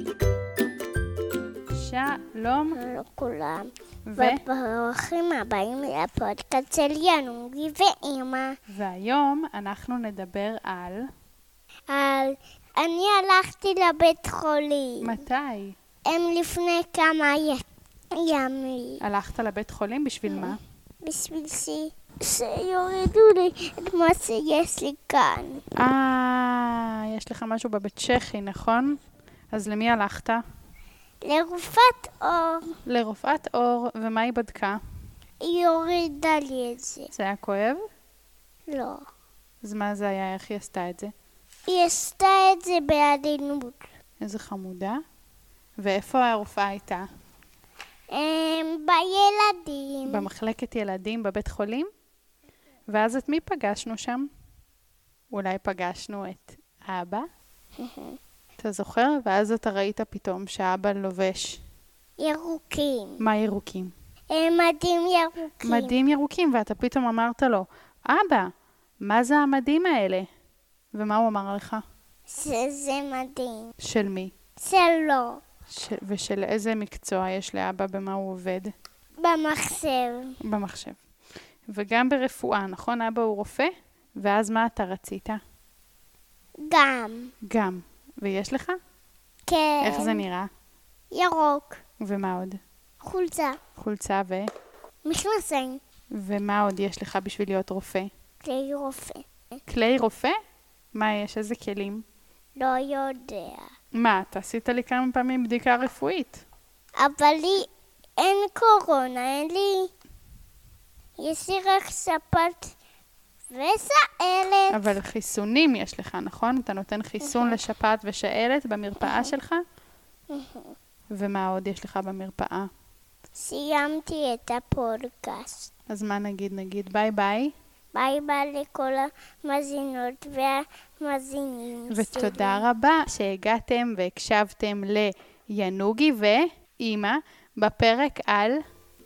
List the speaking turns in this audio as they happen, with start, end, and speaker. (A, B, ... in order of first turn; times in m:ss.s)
0:01.7-0:02.8 A
0:02.7-0:08.6 B
0:04.1-0:04.4 A
0:08.7-0:11.1 A
0:11.9-0:15.2 B
0:15.0-0:15.8 A
0:16.1-0:19.0 B
0:19.0-0:20.6 A
0:20.3-0:25.6 B
0:25.8-0:29.0 A
0:29.5-0:30.4 A
0:31.2-0:32.7 B
0:32.9-0:34.8 A
0:35.4-0:37.1 B
0:37.1-0:37.8 A
0:38.7-0:39.0 B
0:39.6-0:41.1 A
0:41.7-0:43.9 B
0:44.2-0:45.0 A
0:45.8-0:47.1 A
0:48.1-0:50.3 B
0:50.1-0:51.9 A
0:52.9-0:54.3 A
0:55.3-0:57.3 A
0:57.8-0:58.2 B
0:58.6-1:01.6 A
1:02.2-1:03.2 B
1:03.2-1:03.9 A
1:04.3-1:06.0 B
1:05.6-1:08.5 A
1:09.0-1:10.3 A
1:10.9-1:11.8 A
1:12.3-1:13.7 B
1:13.8-1:14.3 A
1:14.6-1:15.4 B
1:15.7-1:18.7 A
1:19.2-1:20.4 B
1:20.4-1:21.0 A
1:21.7-1:25.4 A
1:26.6-1:27.3 B
1:27.4-1:28.8 A
1:29.5-1:30.2 B
1:29.8-1:30.5 A
1:31.1-1:31.8 B
1:32.0-1:32.6 A
1:33.0-1:33.6 B
1:33.8-1:34.5 A
1:35.0-1:35.8 B
1:36.2-1:38.1 A
1:38.4-1:39.3 B
1:39.7-1:40.4 A
1:41.0-1:42.0 A
1:42.6-1:43.7 B
1:44.0-1:46.4 A
1:47.0-1:47.7 B
1:48.2-1:49.9 B
1:51.2-1:52.7 B
1:53.5-1:54.9 B
1:54.7-1:59.6 A
1:57.2-1:57.6 B
1:59.0-1:59.3 B
2:00.3-2:00.8 B
2:01.1-2:02.7 A
2:03.4-2:05.7 B
2:05.9-2:07.5 A
2:08.0-2:12.6 B
2:11.9-2:18.6 A